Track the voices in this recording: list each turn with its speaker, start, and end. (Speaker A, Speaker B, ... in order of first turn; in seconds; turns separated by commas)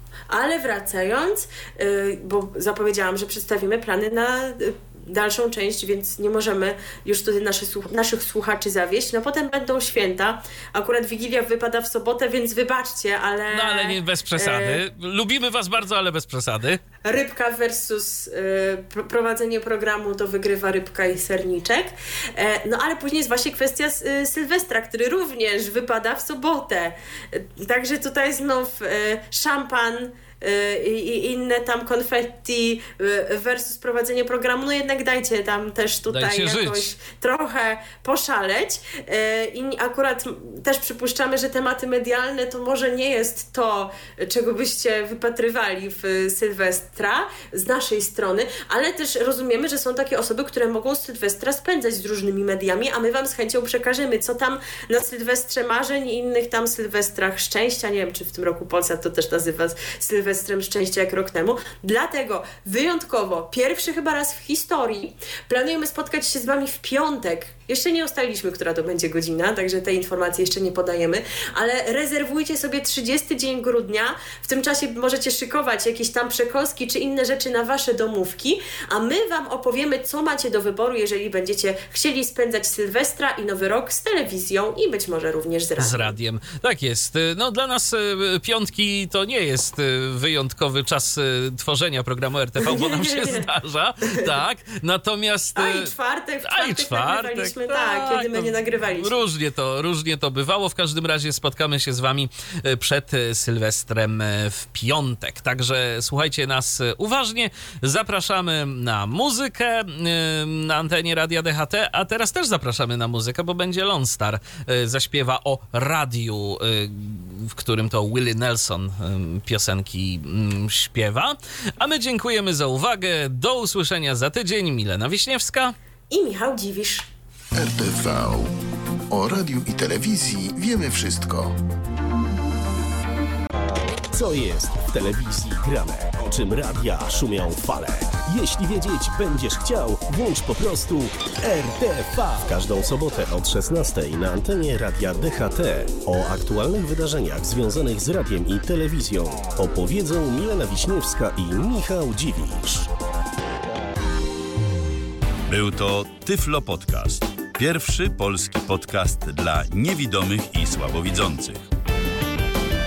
Speaker A: 0.3-14.8, Speaker B: 13.5-16.8, Speaker A: 17.0-86.1, Speaker B: 36.1-36.9, Speaker B: 85.8-95.9, Speaker A: 92.6-93.5, Speaker A: 95.5-99.2, Speaker B: 96.5-125.7, Speaker A: 126.1-127.1, Speaker C: 127.5-128.5, Speaker C: 129.1-131.6, Speaker D: 134.1-152.9, Speaker E: 155.5-161.7